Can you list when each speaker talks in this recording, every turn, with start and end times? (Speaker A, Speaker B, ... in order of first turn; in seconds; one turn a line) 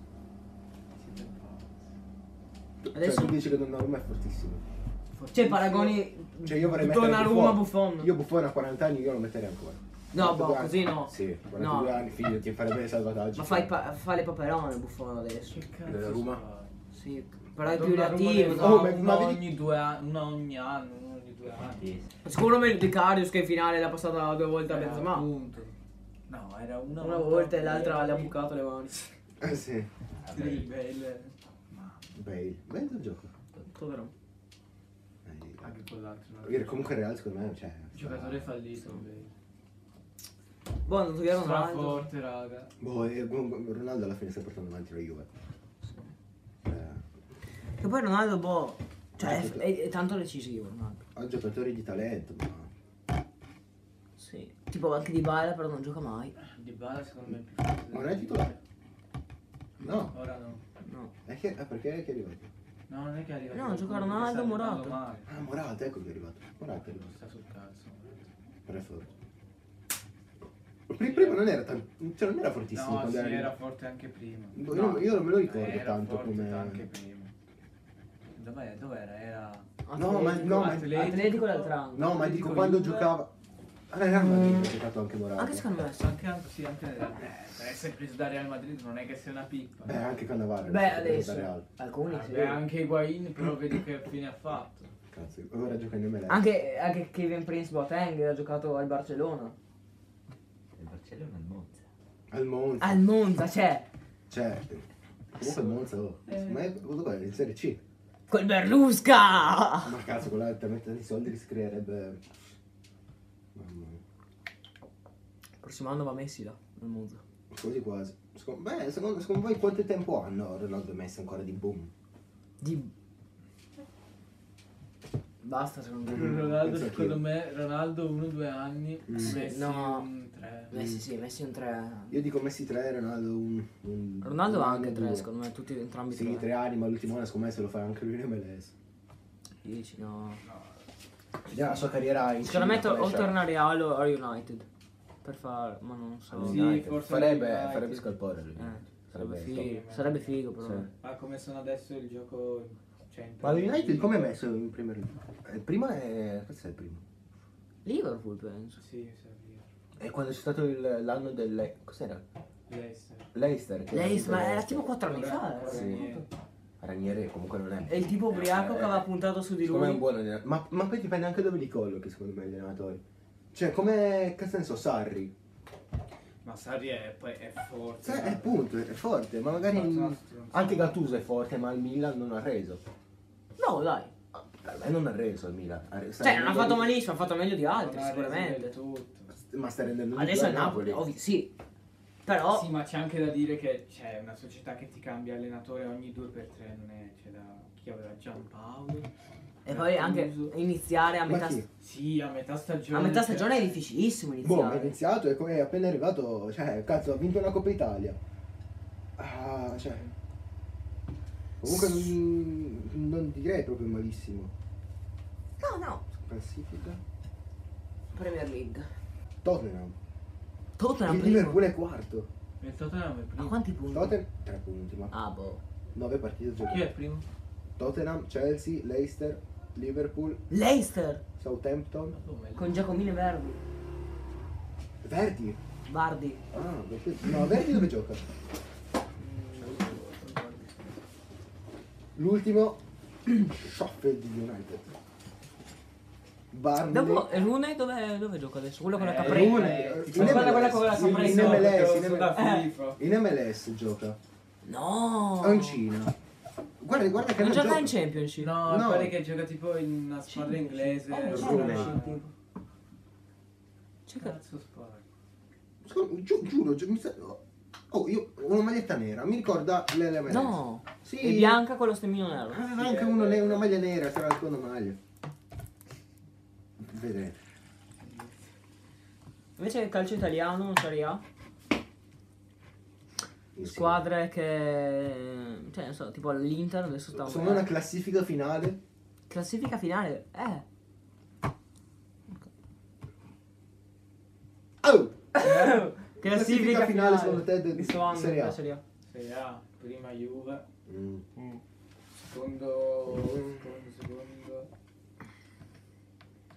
Speaker A: 1.0-1.9
Speaker B: 2.8-4.6
Speaker C: 2.9-3.4
Speaker A: 5.1-6.0
Speaker C: 5.3-8.1
Speaker B: 6.4-13.7
Speaker C: 10.1-12.1
Speaker C: 13.4-15.6
Speaker A: 15.5-16.7
Speaker B: 15.8-16.4
Speaker C: 16.9-18.9
Speaker A: 17.6-21.9
Speaker B: 18.5-19.5
Speaker D: 21.5-22.1
Speaker C: 22.2-25.3
Speaker A: 24.6-25.7
Speaker A: 26.3-28.4
Speaker C: 27.0-29.1
Speaker B: 29.4-29.9
Speaker D: 30.2-30.7
Speaker A: 30.3-32.1
Speaker B: 32.1-33.3
Speaker C: 33.7-34.1
Speaker B: 35.2-35.8
Speaker A: 35.6-37.0
Speaker B: 36.4-38.6
Speaker A: 37.9-39.3
Speaker C: 40.9-42.1
Speaker A: 41.3-42.7
Speaker B: 42.8-45.3
Speaker B: 46.7-47.0
Speaker C: 47.8-51.0
Speaker B: 49.2-49.7
Speaker B: 51.1-52.7
Speaker C: 54.2-56.4
Speaker A: 56.4-58.6
Speaker B: 57.9-58.5
Speaker B: 59.8-60.2
Speaker A: 60.1-60.6
Speaker C: 60.8-61.1
Speaker B: 61.3-62.5
Speaker A: 62.9-65.3
Speaker C: 63.5-65.0
Speaker B: 65.3-67.2
Speaker A: 66.8-68.3
Speaker B: 68.7-69.1
Speaker B: 70.9-73.5
Speaker A: 71.0-71.5
Speaker A: 72.7-77.3
Speaker B: 74.5-76.9
Speaker A: 78.3-79.7
Speaker C: 79.8-82.1
Speaker B: 80.0-81.3
Speaker A: 80.4-83.2
Speaker B: 81.9-83.3
Speaker B: 83.9-85.8
Speaker C: 84.3-84.6
Speaker C: 85.4-86.1
Speaker A: 86.0-90.0
Speaker B: 89.8-91.7
Speaker C: 90.6-92.7
Speaker A: 92.1-94.9
Speaker B: 95.1-96.5
Speaker C: 96.3-99.5
Speaker D: 100.8-101.8
Speaker B: 102.3-103.0
Speaker C: 102.8-103.9
Speaker B: 104.3-104.8
Speaker B: 105.3-107.8
Speaker C: 108.3-110.0
Speaker B: 109.8-112.2
Speaker B: 113.5-114.0
Speaker C: 115.6-117.2
Speaker B: 117.5-121.9
Speaker C: 122.6-122.9
Speaker C: 125.4-126.6
Speaker A: 126.1-130.8
Speaker B: 126.5-127.3
Speaker B: 129.1-129.3
Speaker C: 129.2-130.1
Speaker C: 130.7-132.2
Speaker B: 132.1-135.3
Speaker C: 134.2-136.5
Speaker B: 136.1-138.7
Speaker C: 139.6-140.4
Speaker A: 140.4-140.8
Speaker B: 141.5-143.4
Speaker C: 142.4-144.7
Speaker C: 145.2-146.8
Speaker B: 146.3-149.8
Speaker A: 146.4-148.1
Speaker C: 148.6-150.9
Speaker A: 149.5-150.4
Speaker B: 150.6-150.9
Speaker A: 151.0-154.4
Speaker B: 153.4-157.0
Speaker C: 157.8-158.8
Speaker A: 158.8-159.7
Speaker B: 160.0-162.2
Speaker A: 162.7-163.3
Speaker B: 163.3-164.9
Speaker C: 163.9-166.2
Speaker A: 165.0-166.3
Speaker B: 165.7-166.0
Speaker B: 166.8-169.0
Speaker C: 167.9-170.0
Speaker B: 169.6-173.0
Speaker B: 173.5-175.3
Speaker A: 176.4-178.8
Speaker B: 178.0-182.8
Speaker A: 179.6-181.0
Speaker C: 183.6-184.1
Speaker B: 184.3-186.9
Speaker C: 186.2-188.7
Speaker A: 187.7-189.3
Speaker B: 189.3-191.1
Speaker C: 190.1-191.5
Speaker C: 192.2-192.7
Speaker A: 192.5-199.1
Speaker A: 199.7-200.5
Speaker C: 199.7-201.7
Speaker B: 201.2-201.7
Speaker A: 201.8-203.8
Speaker C: 202.9-205.0
Speaker B: 204.4-208.2
Speaker B: 209.2-210.1
Speaker B: 211.6-214.5
Speaker C: 215.6-216.0
Speaker B: 216.2-217.0
Speaker C: 218.1-218.9
Speaker B: 219.4-220.0
Speaker C: 220.8-221.7
Speaker B: 221.0-222.3
Speaker A: 222.6-223.6
Speaker C: 223.4-224.2
Speaker B: 223.9-225.1
Speaker C: 225.1-225.6
Speaker B: 225.9-226.9
Speaker A: 226.7-227.3
Speaker B: 227.8-230.4
Speaker C: 230.5-231.2
Speaker B: 231.4-232.2
Speaker A: 232.1-233.0
Speaker C: 232.6-233.6
Speaker B: 235.0-235.6
Speaker C: 235.9-236.4
Speaker B: 236.5-238.2
Speaker C: 239.2-240.9
Speaker B: 242.2-244.9
Speaker B: 246.5-247.3
Speaker C: 246.8-252.7
Speaker A: 248.9-253.0
Speaker B: 249.2-252.4
Speaker B: 253.0-254.2
Speaker C: 254.6-255.8
Speaker B: 255.4-256.1
Speaker B: 256.8-257.9
Speaker C: 257.4-258.6
Speaker A: 258.4-262.2
Speaker B: 258.6-259.1
Speaker C: 260.3-262.3
Speaker B: 261.3-262.0
Speaker C: 264.1-264.4
Speaker A: 264.2-265.0
Speaker B: 265.8-271.6
Speaker C: 270.3-272.6
Speaker B: 272.5-275.0
Speaker A: 272.7-273.8
Speaker B: 276.8-277.4
Speaker A: 278.0-278.5
Speaker C: 279.6-281.2
Speaker B: 283.6-284.0
Speaker C: 283.6-287.8
Speaker B: 287.1-288.8
Speaker C: 289.3-290.6
Speaker B: 294.8-295.2
Speaker C: 295.3-298.8
Speaker B: 296.2-298.6
Speaker A: 299.1-300.7
Speaker B: 300.9-301.3
Speaker A: 302.1-304.7